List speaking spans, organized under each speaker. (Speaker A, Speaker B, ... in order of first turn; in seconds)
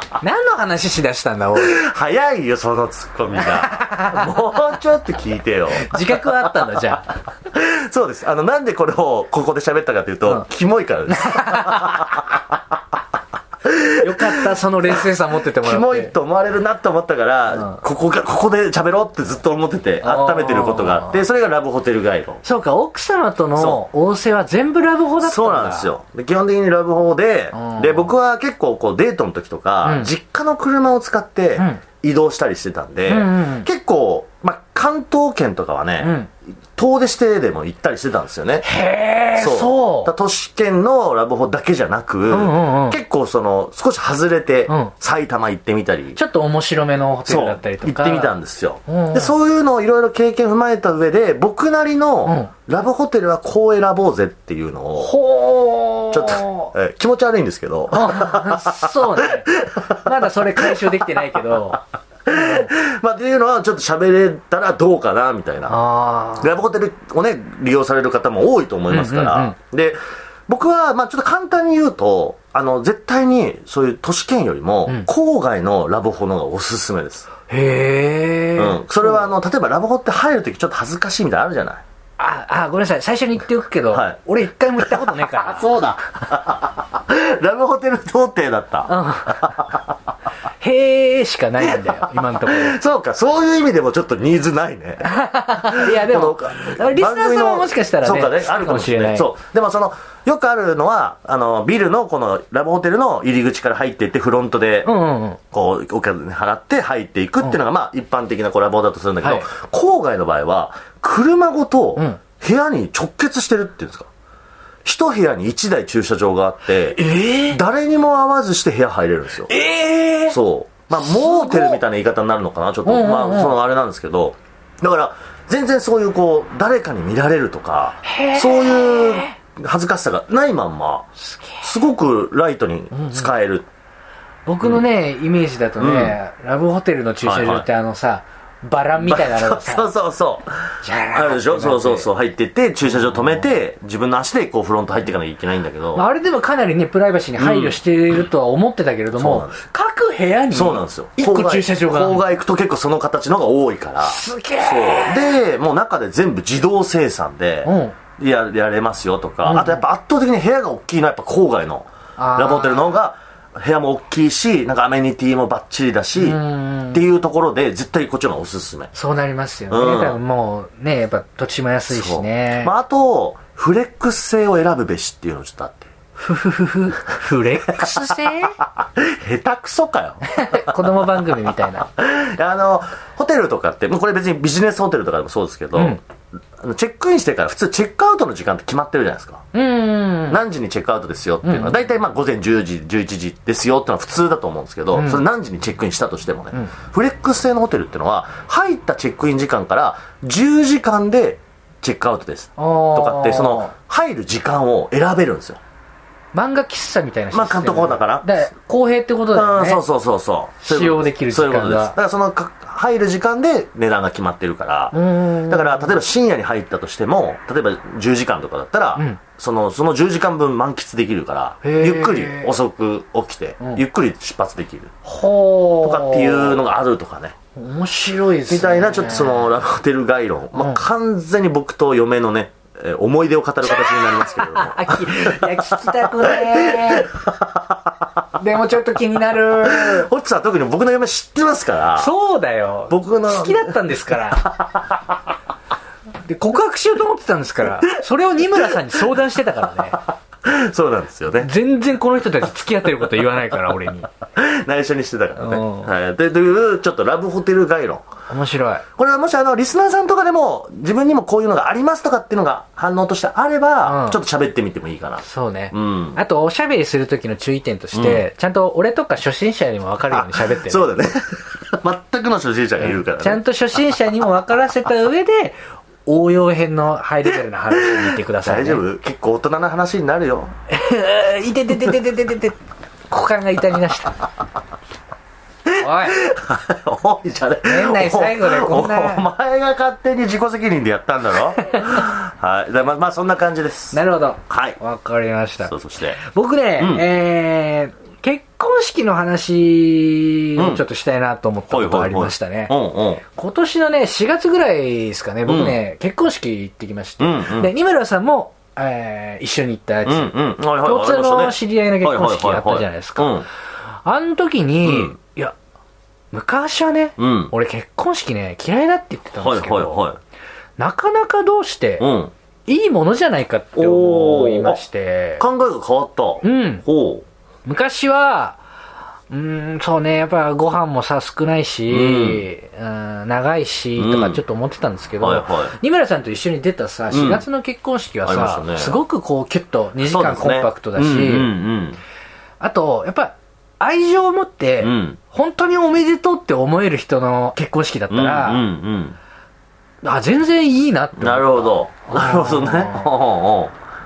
Speaker A: 0.2-1.8, 3.4-4.3, 5.7-7.1, 11.1-12.2, 14.0-16.1, 20.0-21.2, 22.4-25.9, 27.5-28.0, 29.8-30.1, 31.6-31.8, 33.1-33.7, 36.0-36.3, 38.6-40.1, 42.3-43.0, 44.7-44.9, 46.1-49.3, 52.2-52.5, 55.0-56.7, 57.9-61.8, 62.3-62.7, 65.7-66.5, 68.9-69.5, 77.5-79.3, 82.2-85.7, 88.9-89.6, 90.6-92.8, 95.0-99.3, 104.8-105.4, 109.2-109.5, 117.0-117.6, 119.5-120.4, 120.9-121.8, 122.8-123.5, 128.0-129.3, 131.2-131.6, 132.9-133.3, 134.4-139.9, 140.8-142.1, 143.0-143.3, 145.9-152.3, 154.0-155.4, 157.6-157.9, 159.4-159.8, 162.2-162.9, 166.2-167.0, 168.9-172.7, 176.2-178.6, 180.3-181.9, 189.5-190.4, 191.4-191.8, 194.9-195.2, 202.6-203.7, 206.3-209.8, 210.6-212.0, 214.9-215.9, 221.6-222.5, 225.0-226.6, 227.6-229.5, 230.5-230.8, 233.7-237.1, 238.4-240.1, 241.9-244.5, 246.2-250.0, 251.4-254.1, 255.4-255.9, 258.3-258.8, 263.8-264.2, 265.2-270.9, 272.8-278.8, 280.7-282.6, 283.1-284.1, 285.8-286.2, 287.6-289.2, 291.6-292.0, 293.9-313.4, 314.0-315.5, 316.3-320.0, 320.8-322.1, 322.7-325.4, 326.4-326.8, 327.6-328.6, 329.3-341.5, 342.6-348.7, 350.0-353.1
Speaker B: 1.6-6.5, 7.5-12.4, 13.6-15.0, 15.5-22.4, 23.6-23.8, 25.2-36.2, 36.8-38.6, 39.4-46.2, 47.2-55.1, 56.1-61.1, 62.2-65.8, 66.4-70.0, 70.5-77.3, 78.5-81.8, 83.9-84.2, 84.8-89.9, 91.6-104.9, 105.5-114.1, 114.8-119.5, 120.3-131.1, 131.6-133.7, 135.8-136.2, 137.2-137.7, 139.0-146.0, 147.4-147.8, 149.2-149.6, 150.5-166.4, 166.9-168.9, 169.7-170.2, 171.9-175.9, 177.7-186.0, 186.6-189.4, 190.3-205.6, 207.3-208.2, 209.3-224.9, 225.8-227.3, 228.5-237.9, 239.6-242.1, 242.9-243.7, 244.4-245.0, 249.9-251.5, 254.3-258.0, 259.0-266.2, 267.9-268.2, 270.1-273.4, 277.7-280.5, 285.6-294.0, 294.5-294.8, 295.6-296.2, 296.8-297.0, 300.6-300.8, 301.7-303.2, 305.4-305.8, 307.2-307.7, 310.0-313.5, 314.8-315.1, 317.2-317.5, 319.4-320.2, 322.0-322.3, 323.8-324.8, 325.4-327.2, 331.9-332.4, 334.0-334.4, 335.2-335.8, 337.1-337.4, 338.2-339.0, 340.0-342.0, 344.8-345.2, 348.1-349.2, 351.2-353.7